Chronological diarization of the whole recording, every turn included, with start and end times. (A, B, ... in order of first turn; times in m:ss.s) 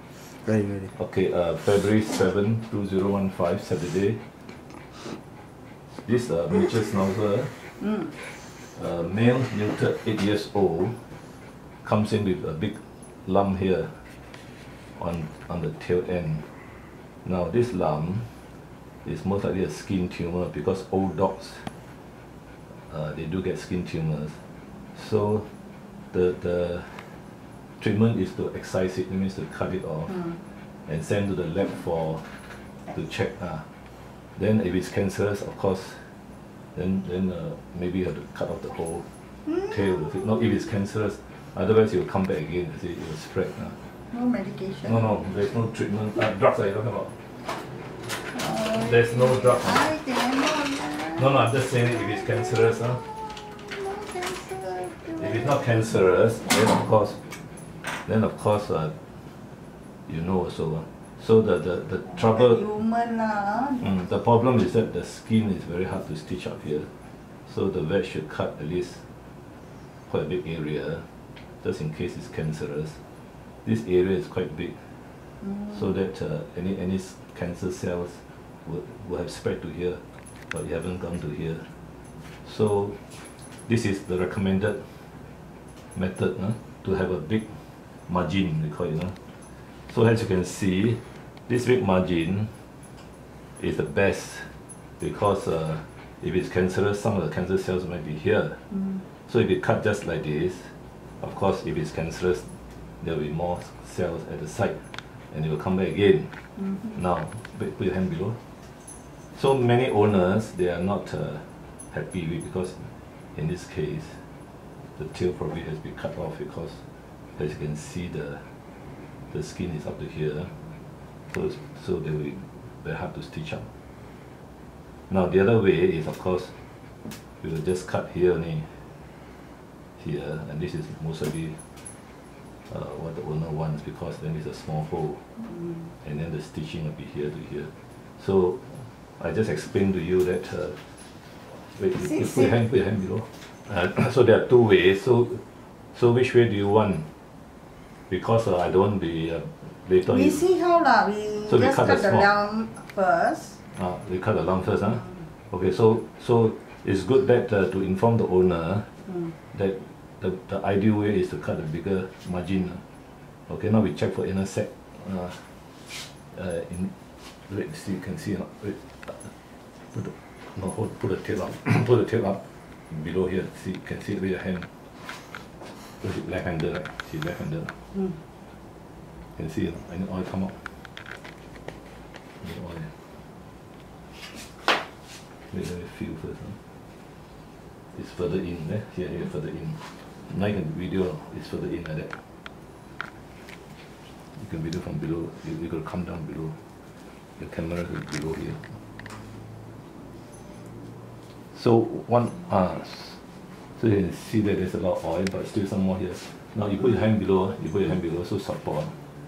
0:00.9-0:04.4 A
0:05.9-0:11.0 A
0:11.8-0:14.2 A
0:15.0-0:16.6 A
0:17.2-0:21.7 A
0:22.7-0:25.6 A
0:26.1-0:27.2 A
0:27.8-0:33.8 A
0:34.3-0:36.2 A
0:36.8-0:39.1 A
0:39.5-0:40.4 B
0:39.7-0:43.8 A
0:44.1-0:45.1 B
0:44.8-0:47.3 A
0:48.1-0:55.8 B
0:48.7-0:49.9 A
0:51.2-0:53.1 A
0:55.2-0:57.3 A
0:57.9-0:59.2 A
1:00.1-1:02.8 A
1:02.1-1:04.0 B
1:03.8-1:09.2 A
1:10.1-1:13.0 A
1:13.6-1:15.0 A
1:15.7-1:21.8 A
1:22.4-1:25.1 A
1:25.9-1:32.7 A
1:33.6-1:48.5 A
1:49.3-1:54.3 A
1:55.0-1:58.6 A
1:59.3-2:00.6 A
2:01.3-2:03.7 A
2:05.1-2:06.6 A
2:07.2-2:08.9 A
2:10.0-2:11.7 A
2:12.7-2:15.3 A
2:15.4-2:15.9 B
2:16.0-2:27.1 A
2:22.0-2:22.6 B
2:28.1-2:30.5 A
2:30.0-2:33.6 B
2:31.5-2:32.3 A
2:33.7-2:38.9 A
2:39.5-2:42.8 A
2:43.5-2:45.6 A
2:46.3-2:54.8 A
2:55.6-2:58.1 A
2:59.4-3:00.9 A
3:02.4-3:03.0 A
3:05.5-3:06.6 A
3:07.9-3:12.4 A
3:14.3-3:16.7 A
3:17.4-3:18.8 A
3:21.5-3:23.2 A
3:23.8-3:29.0 A